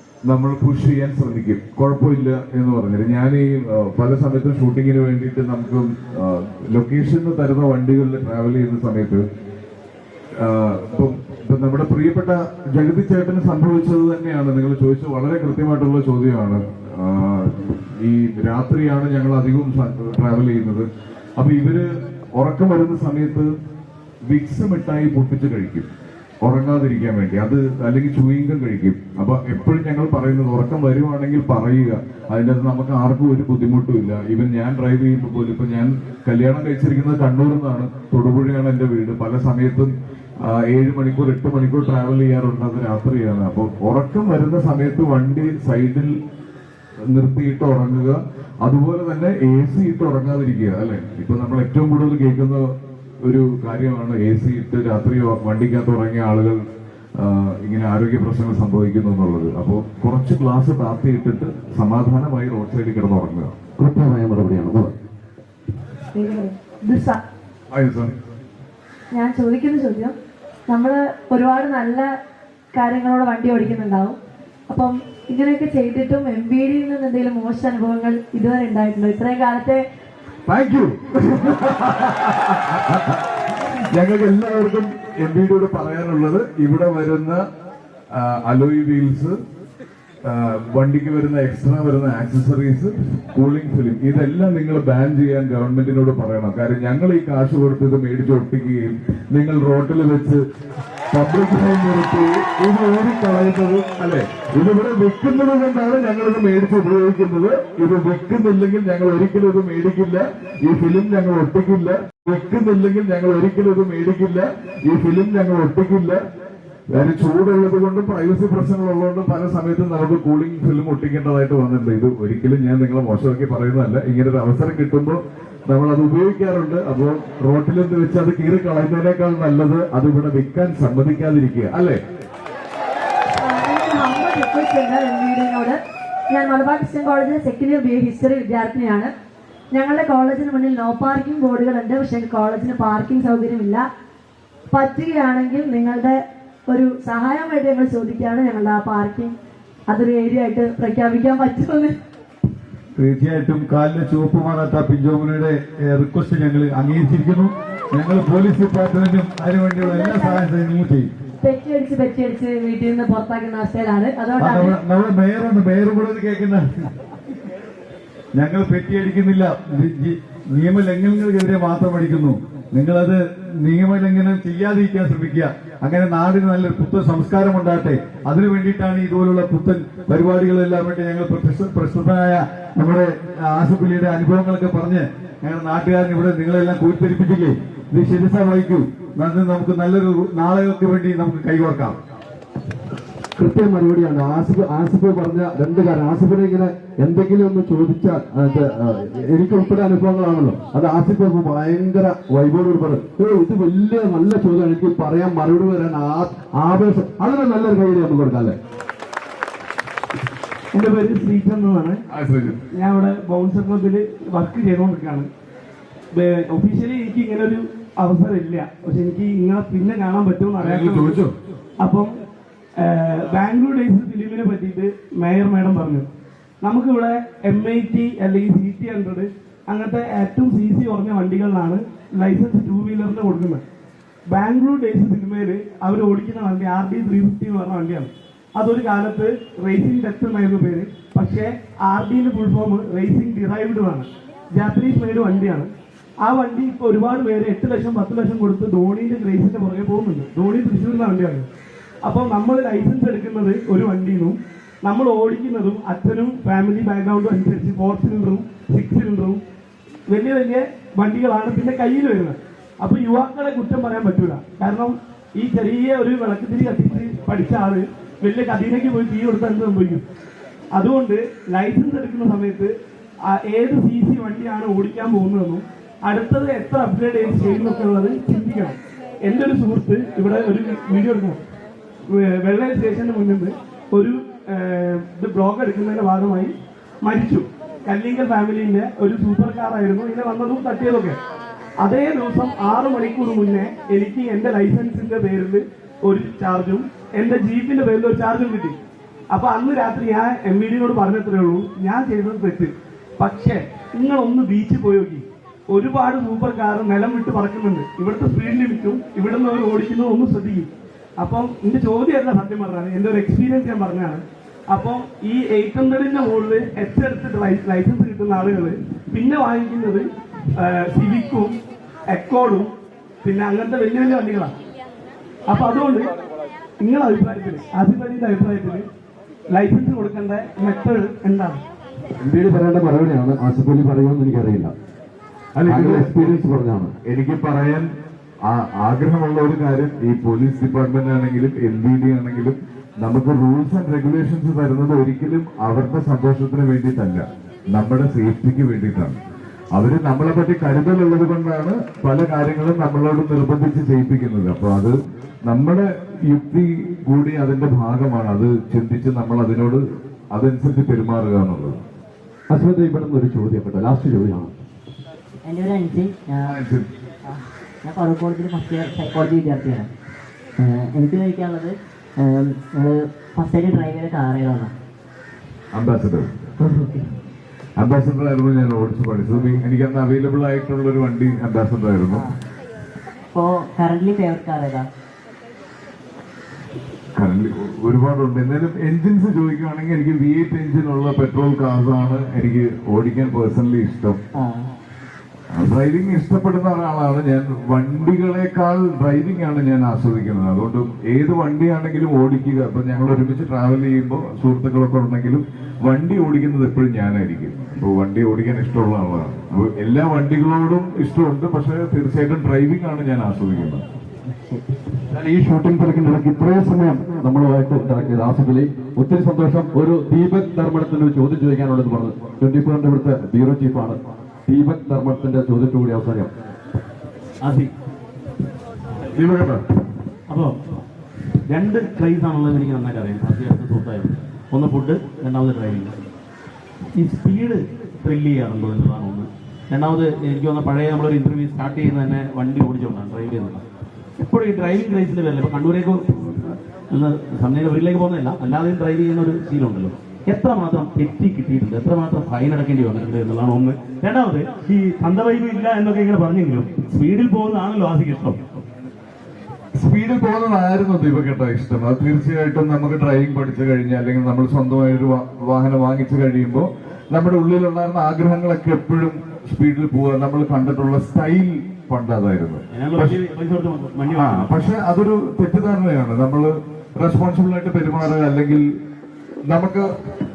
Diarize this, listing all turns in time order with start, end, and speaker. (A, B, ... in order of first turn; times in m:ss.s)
0:00.3-0:09.2 A
0:10.4-0:20.9 A
0:21.4-0:23.5 A
0:24.3-0:25.9 A
0:26.4-0:39.9 A
0:40.4-0:46.1 A
0:47.1-0:52.7 A
0:53.2-0:56.6 A
0:57.2-1:03.5 A
1:03.8-1:05.0 B
1:06.2-1:07.2 C
1:07.7-1:08.1 A
1:09.1-1:10.1 C
1:10.7-1:12.1 C
1:12.7-1:14.2 C
1:14.7-1:19.8 C
1:20.5-1:27.4 A
1:28.1-1:29.4 A
1:30.2-1:40.4 A
1:41.1-1:56.2 A
1:56.9-2:12.0 A
2:13.4-2:15.8 C
2:16.3-2:19.1 C
2:19.7-2:23.8 C
2:24.7-2:26.2 C
2:26.7-2:29.3 C
2:29.9-2:32.0 C
2:33.0-2:41.1 D
2:39.8-2:40.4 C
2:41.4-2:44.8 C
2:44.4-2:46.6 D
2:48.4-3:12.0 D
3:13.4-3:28.6 B
3:30.7-3:32.0 E
3:32.1-3:32.6 A
3:32.7-3:35.3 E
3:36.1-3:41.2 E
3:40.6-3:41.3 A
3:41.8-3:42.2 E
3:42.8-3:46.1 E
3:46.6-3:53.6 E
3:54.3-4:05.7 E
4:06.2-4:11.5 E
4:12.0-4:19.4 E
4:20.1-4:30.0 E
4:30.7-4:32.7 E
4:33.3-4:41.4 E
4:42.1-4:51.2 E
4:51.8-4:58.8 E
4:59.3-5:21.6 E
5:22.1-5:22.7 E
5:23.2-5:24.5 E
5:25.5-5:26.1 E
5:26.8-5:28.9 E
5:29.5-5:31.6 E
5:32.2-5:34.7 B
5:35.6-5:36.4 A
5:35.7-5:36.9 B
5:37.0-5:37.9 A
5:38.5-5:49.2 A
5:49.7-5:54.9 A
5:55.5-5:59.8 A
6:00.3-6:01.8 A
6:02.5-6:04.5 B
6:05.4-6:06.6 F
6:06.4-6:06.8 A
6:07.3-6:09.9 F
6:10.6-6:14.7 F
6:15.7-6:16.5 A
6:17.8-6:22.3 A
6:23.3-6:24.9 F
6:27.2-6:34.2 A
6:34.4-6:34.7 F
6:35.5-6:53.8 A
6:54.3-6:54.6 F
6:55.1-7:06.3 B
7:07.4-7:07.7 G
7:09.2-7:09.6 A
7:11.5-7:15.9 G
7:17.0-7:23.6 G
7:24.2-7:38.4 G
7:39.8-7:53.2 A
7:52.7-7:54.6 G
7:54.1-7:58.6 A
7:59.5-7:59.9 A